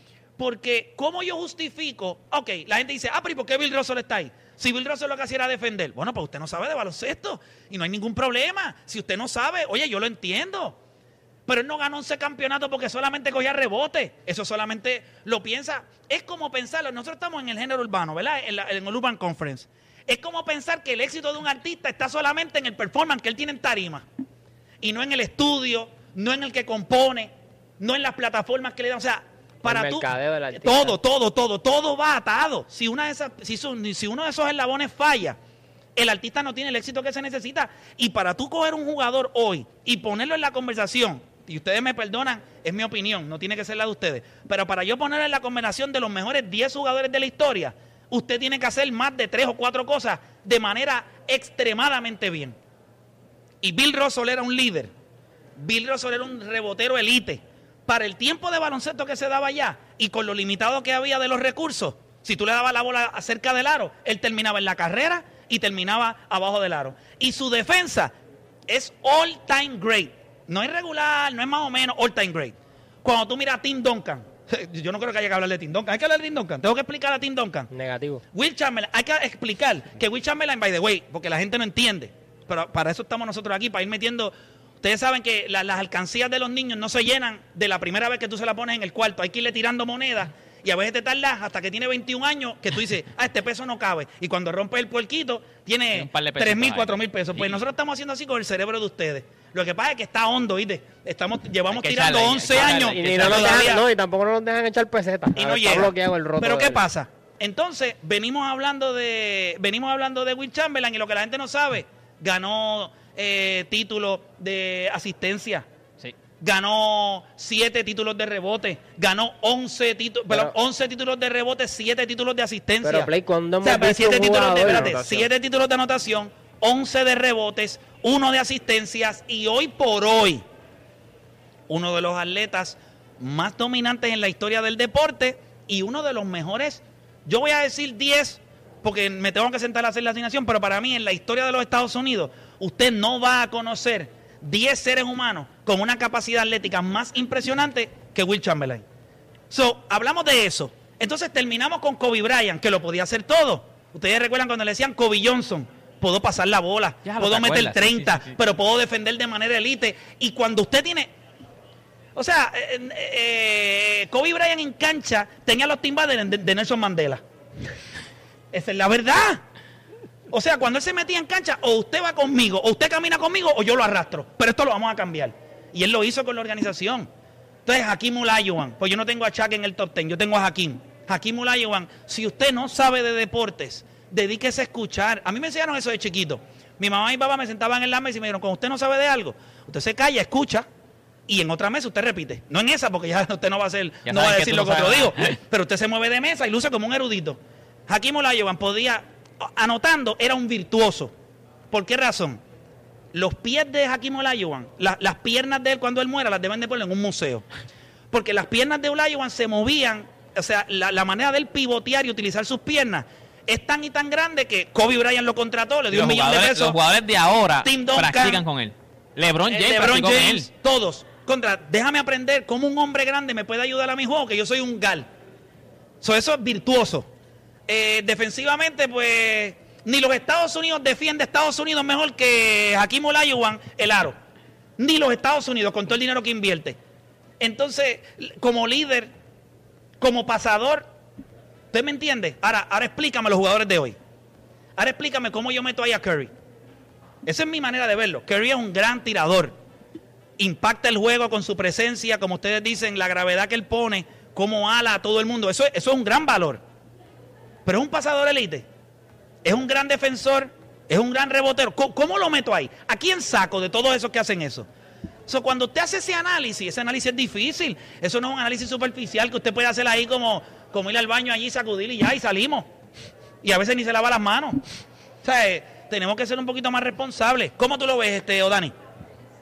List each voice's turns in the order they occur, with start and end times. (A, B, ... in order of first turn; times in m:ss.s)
0:00.4-0:10.8 A
0:11.5-0:24.0 A
0:24.8-0:35.4 A
0:29.6-0:31.0 B
0:36.0-0:52.6 A
0:53.6-0:54.9 A
0:55.6-1:08.1 A
1:08.7-1:17.7 A
1:17.7-1:18.2 B
1:18.3-1:43.8 A
1:35.9-1:37.6 C
1:41.7-1:43.7 C
1:42.8-1:46.8 B
1:45.4-1:55.6 A
1:56.4-2:10.4 A
2:02.8-2:05.3 B
2:11.7-2:28.8 A
2:29.5-2:41.1 A
2:37.0-2:38.4 C
2:42.1-2:47.2 A
2:48.5-2:49.4 A
2:50.3-2:57.1 A
2:57.6-3:10.6 A
3:11.3-3:21.1 A
3:14.0-3:15.4 C
3:21.7-3:22.4 A
3:23.1-3:27.4 A
3:28.1-3:36.8 A
3:35.9-3:40.5 C
3:37.6-3:38.4 A
3:39.5-3:45.1 A
3:46.0-3:47.1 A
3:47.7-3:54.2 A
3:54.8-3:56.8 A
3:57.4-3:59.1 A
4:00.0-4:00.9 A
4:01.7-4:04.0 A
4:04.8-4:06.3 A
4:07.2-4:09.5 A
4:10.4-4:16.6 A
4:17.6-4:18.6 A
4:19.4-4:24.7 A
4:25.3-4:32.7 A
4:33.4-4:34.6 A
4:35.2-4:38.7 A